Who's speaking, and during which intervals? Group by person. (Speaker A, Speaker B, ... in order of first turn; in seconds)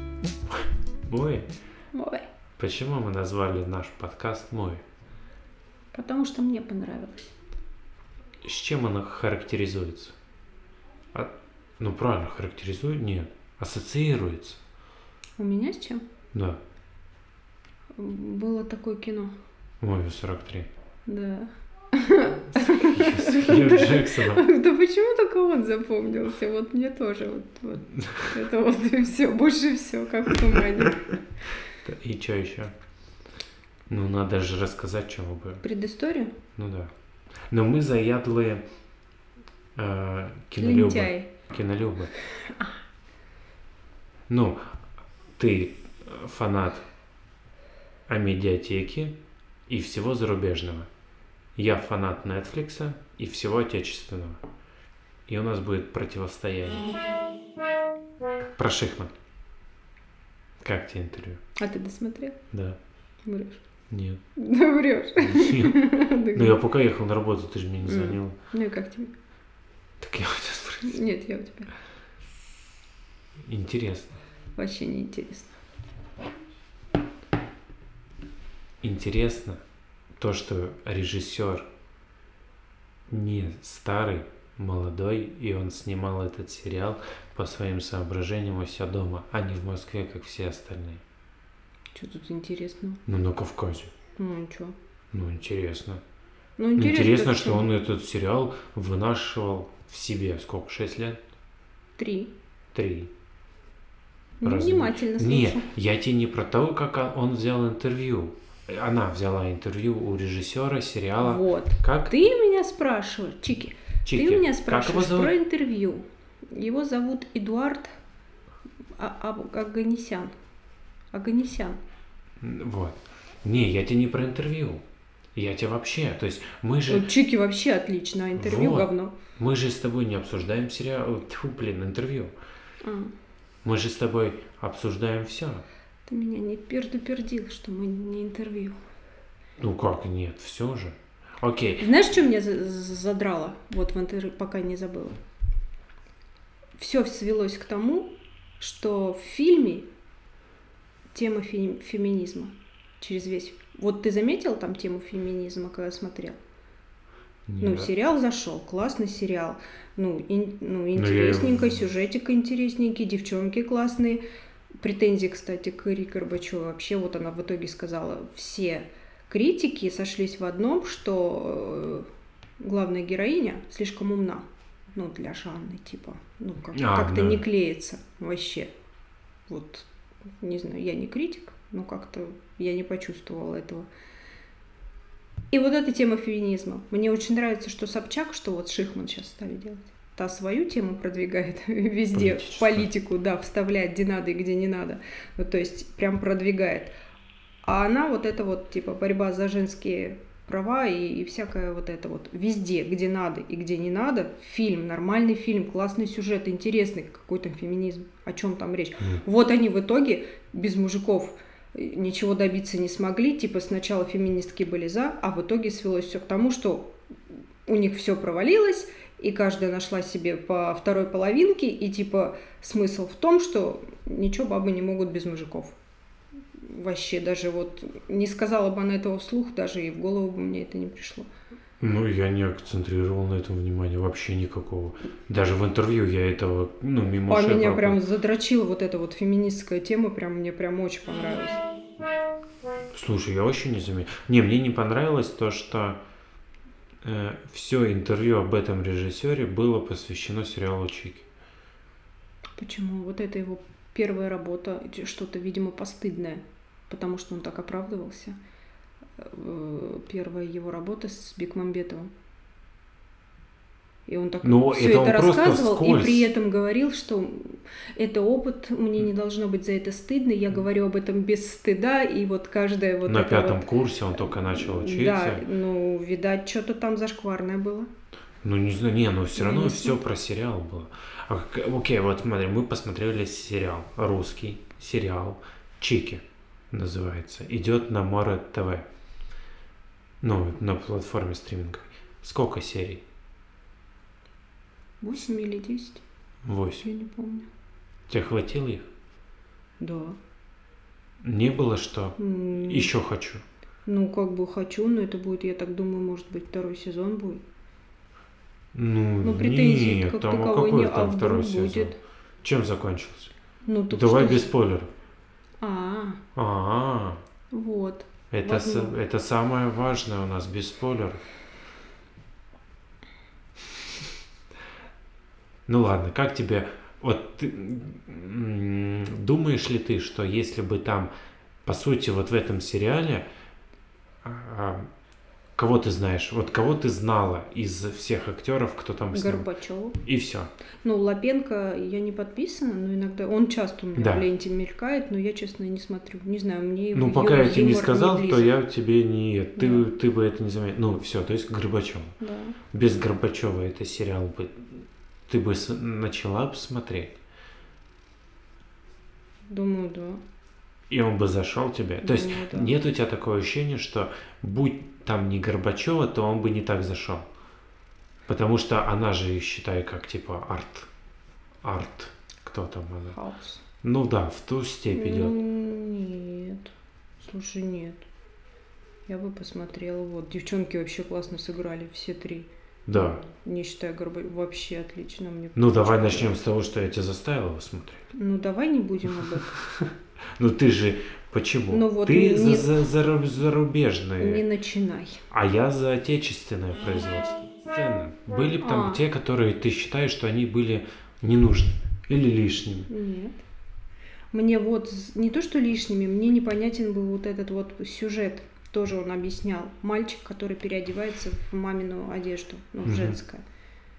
Speaker A: 0.5-1.5, 2.6-4.8, 8.4-10.2, 11.1-14.6, 16.3-16.6, 19.8-20.7, 22.5-24.4, 31.7-32.7, 33.9-35.6, 36.5-36.9, 37.5-38.6, 39.8-42.1, 44.3-44.7, 45.4-46.9, 48.1-49.2, 49.7-50.9, 51.5-54.4, 55.3-56.9, 58.5-59.1, 60.6-61.4, 62.5-62.8, 63.9-64.2, 65.2-68.3, 70.0-71.0, 73.4-74.1, 78.8-79.6, 80.2-81.7, 83.1-91.0, 93.1-93.9, 95.1-96.0, 96.8-101.2, 102.7-103.1, 104.4-112.1, 114.0-115.3, 122.4-124.8, 125.3-127.1, 128.3-132.3, 133.6-135.6, 139.6-141.9, 157.5-157.9, 160.9-161.8, 176.7-177.4, 192.1-192.9, 231.8-238.0, 242.9-246.0, 247.0-251.2, 264.4-266.3, 273.1-275.4, 278.4-288.9, 290.2-293.0, 296.4-296.9, 298.1-298.9, 301.2-303.4, 308.7-313.3, 313.9-314.9, 316.3-317.2, 318.3-321.2, 325.7-331.1, 331.6-333.2, 334.2-334.9, 335.6-339.5, 340.0-340.5, 343.9-344.2, 346.9-352.1, 352.7-357.2, 360.9-367.3, 368.3-370.9, 371.6-373.2, 373.8-375.4, 382.9-383.2, 385.6-388.0, 389.4-394.4, 395.3-402.9, 412.8-413.2
Speaker B: 1.9-2.2, 5.9-7.3, 15.4-16.0, 17.9-19.3, 21.1-31.1, 35.6-36.4, 40.6-41.3, 42.4-42.7, 61.6-62.4, 63.2-63.6, 64.4-66.6, 67.8-69.1, 70.8-71.7, 74.5-75.5, 91.9-93.0, 94.2-94.7, 96.6-97.7, 102.0-102.3, 104.4-105.7, 111.2-118.0, 119.0-120.3, 121.1-121.8, 126.9-129.1, 132.8-133.1, 136.1-138.8, 141.8-145.2, 146.8-149.8, 151.1-156.4, 157.6-164.2, 164.8-172.1, 172.6-178.7, 179.5-179.9, 180.4-183.9, 185.5-196.9, 197.6-216.9, 217.7-225.7, 226.6-231.3, 237.3-241.6, 252.6-258.4, 259.2-262.1, 264.1-277.9, 279.3-280.0, 295.0-296.0, 296.8-297.5, 299.8-300.2, 302.2-302.9, 303.9-307.4, 309.2-312.0, 313.6-314.5, 315.6-316.2, 317.5-318.9, 339.1-340.0, 340.8-348.5, 349.6-349.9, 352.2-352.6, 359.5-360.2, 362.0-362.8, 373.1-373.6, 374.9-378.1, 379.1-386.4, 388.1-389.5, 391.7-392.8, 394.2-395.2, 398.6-399.0, 402.9-403.3, 404.3-413.4